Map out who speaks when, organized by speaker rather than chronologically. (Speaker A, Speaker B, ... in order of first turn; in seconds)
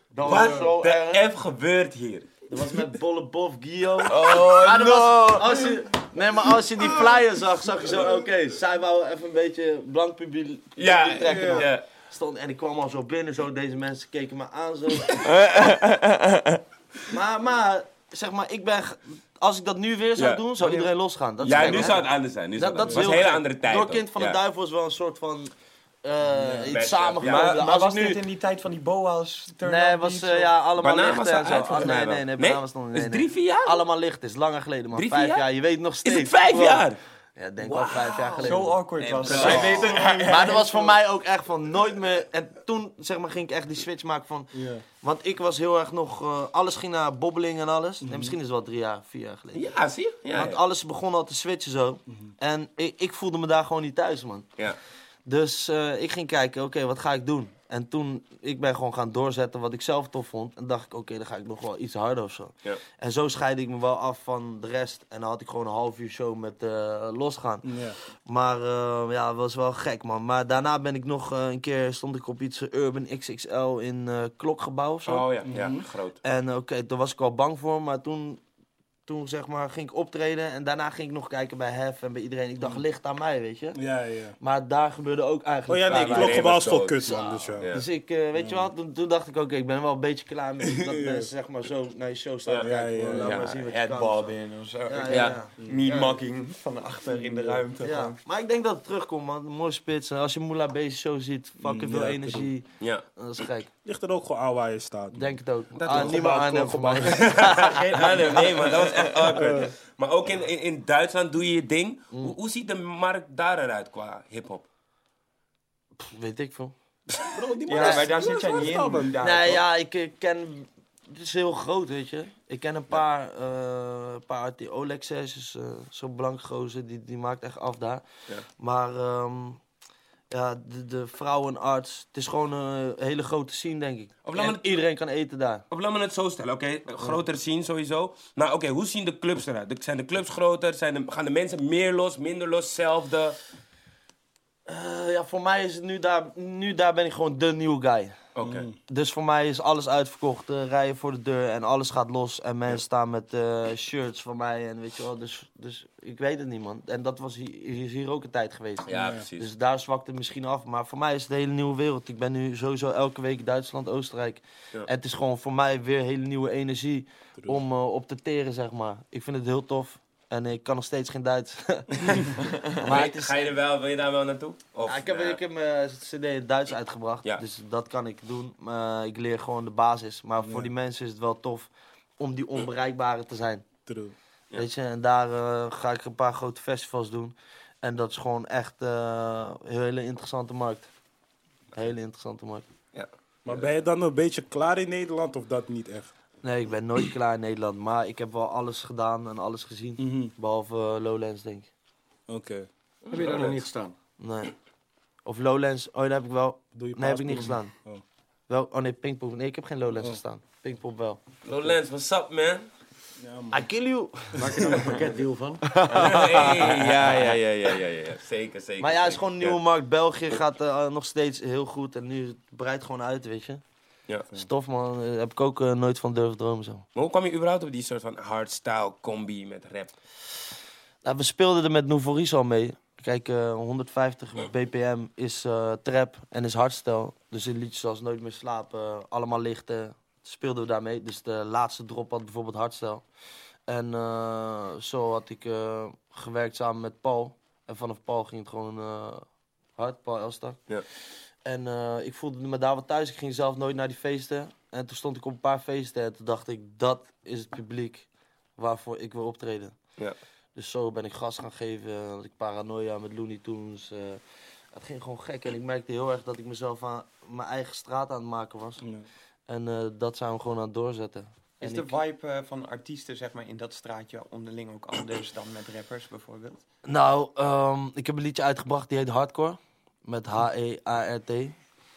Speaker A: 0.1-1.2, 2.5-15.3, 17.1-25.5, 26.0-28.2, 29.6-49.7, 50.3-54.5, 55.2-75.3, 76.2-78.4, 79.0-83.8, 84.4-96.2, 97.8-103.7, 105.1-108.6, 116.0-116.7, 117.7-118.1, 119.2-128.0, 128.6-129.6, 130.3-135.6, 144.7-148.2, 148.9-173.5, 174.8-183.7, 184.5-190.9, 191.7-192.7, 196.4-201.7, 204.2-204.5, 205.2-207.7, 208.5-211.2, 213.5-214.8, 215.7-217.3, 218.8-223.6, 224.3-226.8, 231.0-243.0, 243.7-250.7, 251.4-259.8, 260.5-264.2, 264.7-268.8, 269.5-271.9, 276.9-281.6
Speaker B: 0.2-2.3, 10.8-11.8, 20.2-20.7, 21.4-24.4, 26.4-27.5, 30.8-33.8, 34.9-35.5, 36.0-37.0, 37.6-40.3, 49.5-50.6, 75.0-76.2, 85.9-87.1, 92.5-93.5, 95.1-95.4, 102.8-103.1, 107.0-114.7, 134.2-134.8, 135.7-143.4, 148.3-148.7, 158.9-159.5, 172.8-175.4, 192.9-193.7, 203.0-203.5, 211.4-212.7, 215.9-219.6, 226.9-229.9
Speaker C: 4.1-5.8, 15.2-16.6, 21.5-21.9, 27.2-30.5, 38.4-41.0, 93.2-98.2, 108.3-109.6, 117.7-119.6, 271.6-276.6
Speaker D: 11.3-11.6, 22.9-23.1, 44.5-44.8, 48.0-48.4, 67.6-68.0, 75.4-75.8, 83.7-84.3, 85.7-87.7, 88.3-88.7, 90.6-91.3, 92.6-93.5, 97.1-97.6, 101.6-102.5, 103.8-107.7, 109.3-109.7, 117.2-119.2, 148.4-148.7, 158.9-159.3, 180.4-180.7, 183.8-184.1, 193.4-196.1, 200.0-200.3, 202.3-203.6, 206.7-208.0, 213.2-213.7, 214.6-215.0, 268.8-269.1
Speaker E: 203.1-203.9, 214.4-215.7